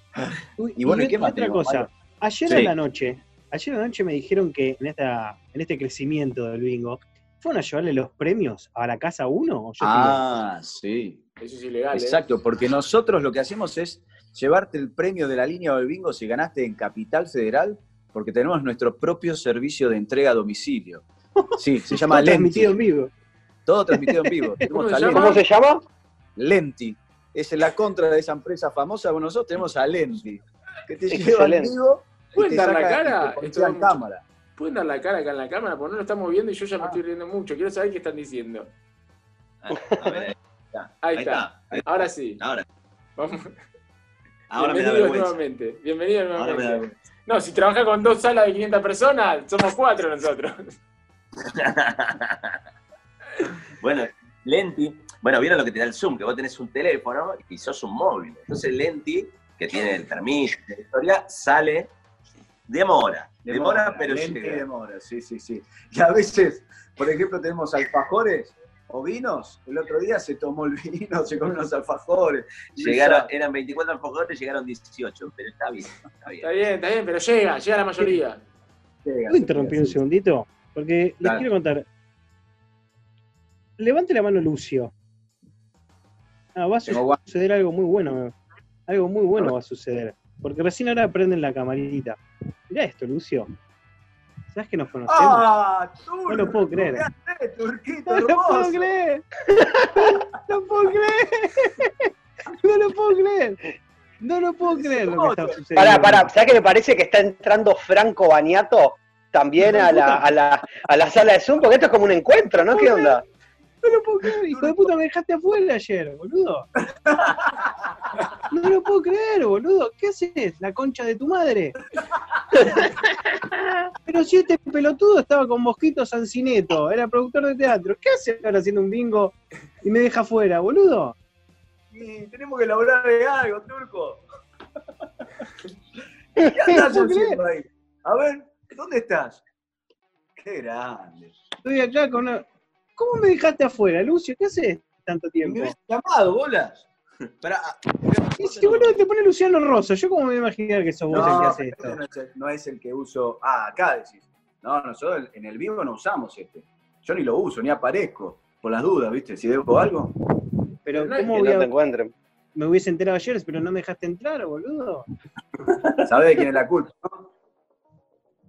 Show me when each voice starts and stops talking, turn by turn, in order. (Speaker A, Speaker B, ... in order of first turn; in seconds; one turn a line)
Speaker A: 0.6-10.2
Speaker B: 0.8-1.9
Speaker B: 9.8-11.2
Speaker C: 11.4-12.3
Speaker B: 11.9-21.0
Speaker A: 21.5-23.1
Speaker B: 21.6-22.8
Speaker B: 23.6-25.4
Speaker A: 23.9-24.3
Speaker C: 24.6-25.4
Speaker D: 25.1-25.8
Speaker B: 26.4-34.2
Speaker D: 31.1-31.7
Speaker C: 32.3-33.9
Speaker C: 34.6-38.7
Speaker E: 39.6-42.6
Speaker C: 41.0-42.4
Speaker C: 43.2-43.5
Speaker E: 44.5-45.4
Speaker C: 44.5-50.7
Speaker E: 46.4-46.9
Speaker E: 51.4-52.6
Speaker E: 53.8-61.9
Speaker E: 62.7-64.6
Speaker B: 63.5-73.3
Speaker E: 72.8-76.5
Speaker C: 76.4-78.4
Speaker B: 79.0-80.0
Speaker A: 79.3-81.8
Speaker A: 83.8-84.9
Speaker A: 86.5-88.3
Speaker B: 86.8-87.2
Speaker A: 88.9-93.5
Speaker A: 94.5-95.5
Speaker B: 95.1-98.9
Speaker A: 96.3-97.0
Speaker A: 98.1-99.2
Speaker D: 99.5-100.2
Speaker A: 100.0-102.1
Speaker A: 102.6-103.6
Speaker A: 104.2-106.3
Speaker B: 104.7-105.6
Speaker D: 105.8-113.2
Speaker A: 112.7-113.2
Speaker A: 113.8-116.7
Speaker B: 114.5-114.9
Speaker B: 117.0-117.9
Speaker A: 118.5-121.8
Speaker A: 124.0-131.1
Speaker B: 131.9-134.2
Speaker B: 136.4-139.4
Speaker A: 136.7-137.4
Speaker B: 140.3-141.3
Speaker A: 141.6-142.4
Speaker A: 143.0-145.7
Speaker B: 145.4-146.8
Speaker B: 147.4-148.9
Speaker A: 148.4-152.0
Speaker B: 151.1-160.1
Speaker A: 160.8-161.7
Speaker C: 160.9-161.3
Speaker D: 161.2-162.1
Speaker A: 162.5-165.1
Speaker B: 166.0-167.3